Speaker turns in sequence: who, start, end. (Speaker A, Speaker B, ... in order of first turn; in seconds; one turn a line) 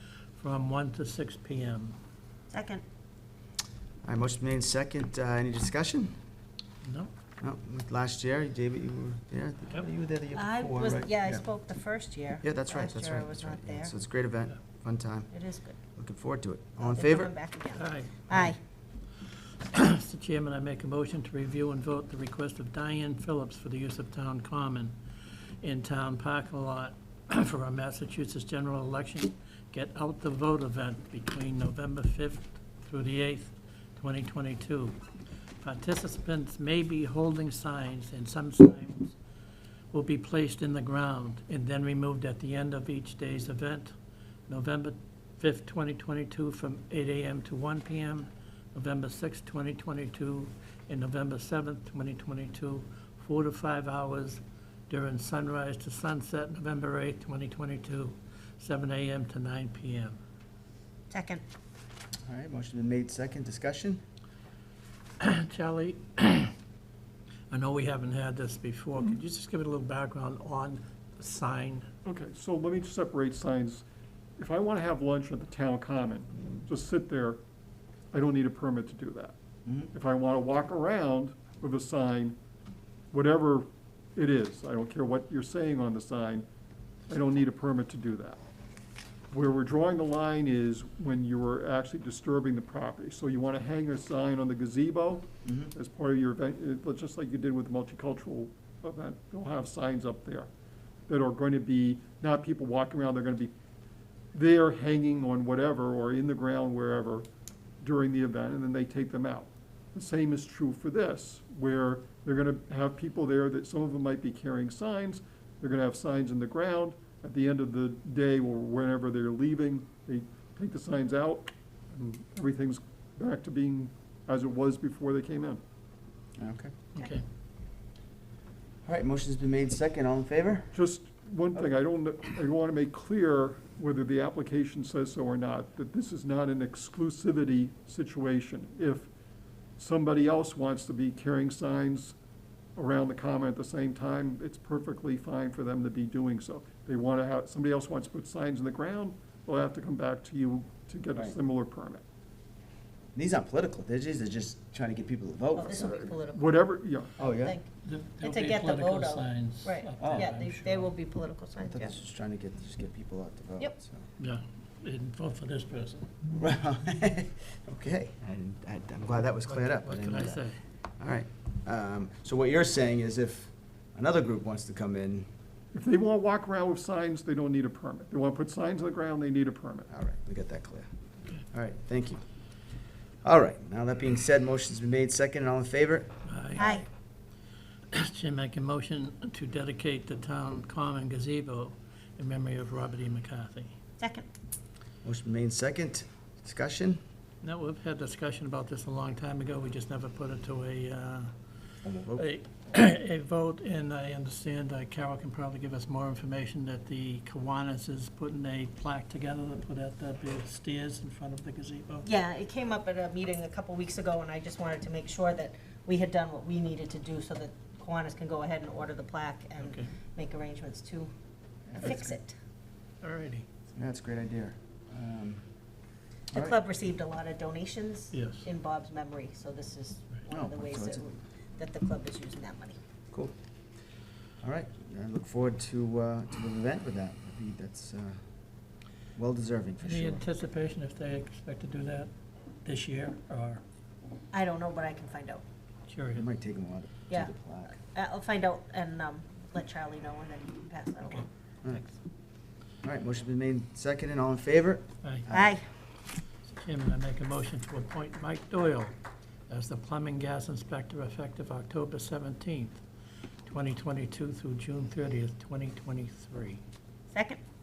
Speaker A: 0.3-2.0
Speaker B: 2.5-2.8
Speaker C: 4.0-6.2
Speaker A: 6.8-7.1
Speaker C: 7.4-11.4
Speaker B: 10.3-13.9
Speaker C: 12.4-15.3
Speaker B: 15.3-15.8
Speaker C: 15.9-17.3
Speaker B: 16.8-18.6
Speaker A: 17.8-18.5
Speaker A: 19.6-24.9
Speaker A: 25.6-35.0
Speaker A: 35.6-39.1
Speaker A: 39.9-43.9
Speaker A: 44.5-60.2
Speaker B: 61.1-61.4
Speaker C: 62.3-64.0
Speaker A: 65.2-66.5
Speaker A: 67.5-71.9
Speaker D: 72.0-73.8
Speaker D: 74.4-77.4
Speaker D: 78.1-79.3
Speaker D: 79.9-82.4
Speaker D: 83.1-86.5
Speaker D: 87.1-88.4
Speaker D: 89.3-100.5
Speaker C: 95.4-95.7
Speaker D: 101.1-103.5
Speaker D: 104.3-107.3
Speaker D: 107.8-125.6
Speaker C: 126.4-126.7
Speaker A: 126.9-127.2
Speaker C: 128.8-130.7
Speaker D: 130.7-139.1
Speaker D: 139.8-142.2
Speaker D: 142.8-152.0
Speaker C: 153.1-156.2
Speaker B: 155.5-156.5
Speaker D: 156.3-157.1
Speaker C: 157.2-157.6
Speaker B: 157.4-157.7
Speaker A: 157.8-160.9
Speaker B: 158.2-161.9
Speaker C: 160.0-160.3
Speaker C: 161.7-164.0
Speaker A: 164.2-166.1
Speaker C: 166.3-170.5
Speaker A: 169.5-170.6
Speaker C: 171.0-175.3
Speaker D: 175.7-179.9
Speaker C: 179.9-180.9
Speaker C: 181.5-182.2
Speaker C: 183.2-186.1
Speaker A: 186.2-186.8
Speaker B: 186.6-186.8
Speaker A: 187.9-193.7
Speaker B: 194.0-194.3
Speaker C: 195.0-197.0
Speaker A: 197.4-201.3
Speaker C: 201.8-202.3
Speaker A: 202.2-212.1
Speaker B: 212.0-221.1
Speaker A: 219.6-219.9
Speaker C: 221.7-222.2
Speaker B: 221.8-222.3
Speaker A: 223.0-223.4
Speaker C: 223.8-225.4
Speaker B: 226.3-232.8
Speaker A: 228.1-228.5
Speaker C: 230.3-231.0
Speaker C: 234.4-238.2
Speaker C: 239.1-240.2
Speaker A: 239.8-242.1
Speaker A: 242.6-243.6
Speaker B: 244.3-245.4
Speaker A: 245.9-246.2
Speaker C: 246.1-247.8
Speaker B: 247.1-251.2
Speaker C: 252.8-255.6
Speaker B: 255.3-255.6
Speaker A: 256.5-258.9
Speaker A: 259.5-262.8
Speaker A: 263.4-266.6
Speaker B: 267.1-267.4